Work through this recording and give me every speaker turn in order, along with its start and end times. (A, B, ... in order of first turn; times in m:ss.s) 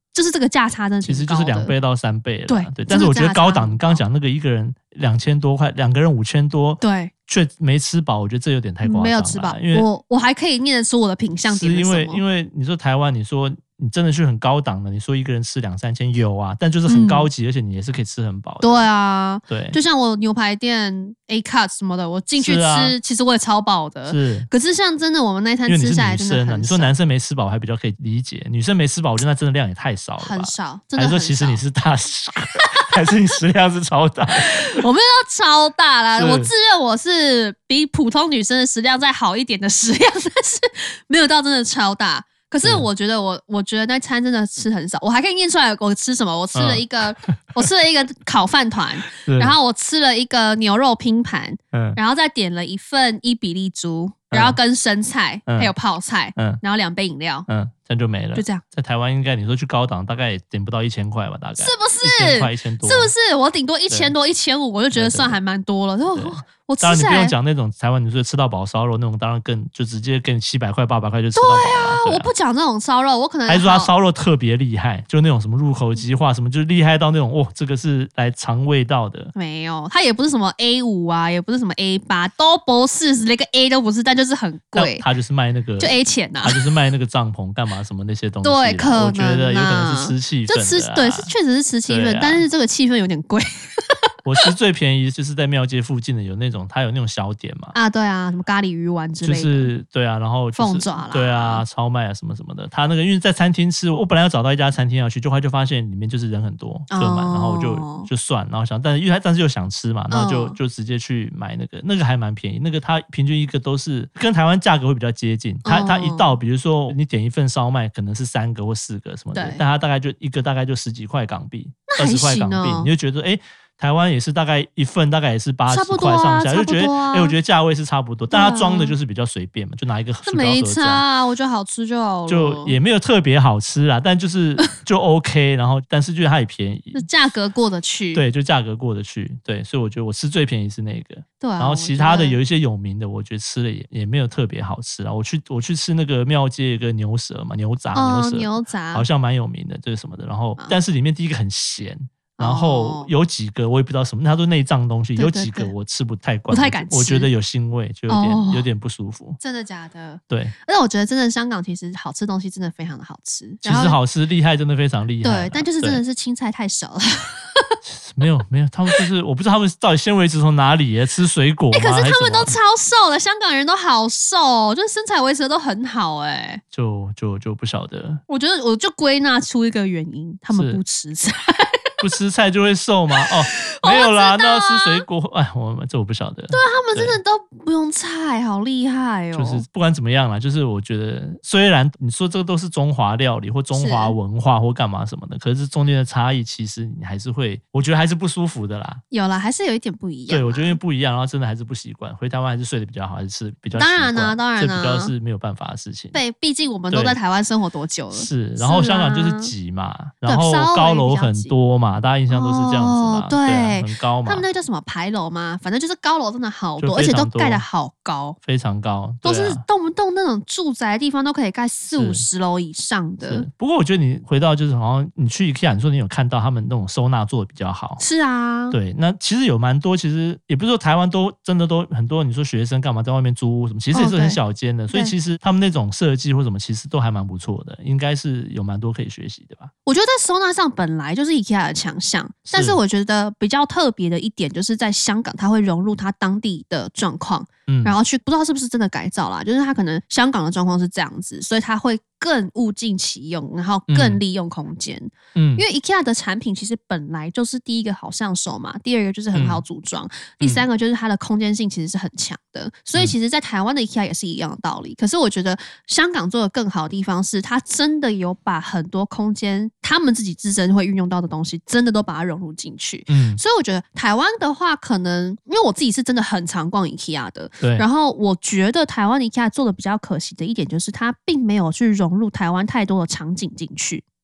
0:00.1-0:01.7 A
0:01.0-0:09.9 B
0:02.5-0:04.0 A
0:06.8-0:07.1 A
0:08.8-0:12.2 A
0:11.5-0:18.9 B
0:16.9-0:17.3 A
0:18.6-0:26.9 A
0:19.5-0:19.8 B
0:22.4-0:23.0 B
0:24.0-0:24.5 B
0:25.6-0:34.8 B
0:30.2-0:31.6 A
0:34.4-0:57.5 A
0:36.1-0:36.5 B
0:42.6-0:42.9 B
0:46.5-0:47.4 B
0:49.2-0:49.6 B
0:51.7-0:52.0 B
0:54.3-0:54.6 B
0:55.5-0:55.7 B
0:57.5-1:03.1 B
0:58.3-0:58.6 A
1:01.6-1:07.3 A
1:04.9-1:05.4 B
1:06.1-1:12.3 B
1:11.3-1:13.9 A
1:13.5-1:19.3 B
1:19.3-1:25.0 A
1:24.7-1:31.3 B
1:25.8-1:26.6 A
1:28.4-1:34.5 A
1:31.9-1:32.4 B
1:34.2-1:37.7 B
1:37.7-1:39.7 A
1:39.2-2:11.0 B
1:40.5-1:41.6 A
1:46.9-1:48.1 A
1:50.1-1:50.6 A
1:55.6-1:56.4 A
1:59.3-1:59.6 A
2:01.9-2:02.9 A
2:05.7-2:07.4 A
2:08.3-2:09.0 A
2:10.2-2:12.8 A
2:12.3-2:17.1 B
2:16.9-2:18.2 A
2:18.1-2:39.4 B
2:21.4-2:22.4 A
2:27.9-2:29.0 A
2:32.4-2:33.1 A
2:35.2-2:35.7 A
2:36.5-2:37.3 A
2:38.1-2:38.7 A
2:39.4-2:44.0 A
2:40.3-2:40.5 B
2:43.6-2:46.0 B
2:45.2-2:47.8 A
2:47.8-2:52.6 B
2:51.7-2:56.6 A
2:56.7-2:58.2 B
2:58.3-3:01.8 A
3:00.5-3:00.8 B
3:02.0-3:07.2 B
3:03.2-3:05.0 A
3:06.5-3:09.6 A
3:09.3-3:19.0 B
3:13.7-3:14.2 A
3:19.1-3:20.8 A
3:20.3-3:26.2 B
3:23.7-3:25.1 A
3:26.1-3:29.5 A
3:26.9-3:27.2 B
3:28.1-3:34.4 B
3:30.2-3:31.5 A
3:32.3-3:38.4 A
3:36.8-3:37.6 B
3:38.4-3:39.6 B
3:39.2-3:43.5 A
3:41.9-3:42.2 B
3:43.2-3:48.0 B
3:48.0-3:48.8 A
3:48.7-3:59.7 B
3:53.9-3:54.4 A
3:59.8-4:44.0 A
4:02.5-4:02.8 B
4:07.7-4:08.0 B
4:13.9-4:14.2 B
4:15.3-4:15.6 B
4:19.3-4:19.6 B
4:33.1-4:33.4 B
4:37.6-4:37.8 B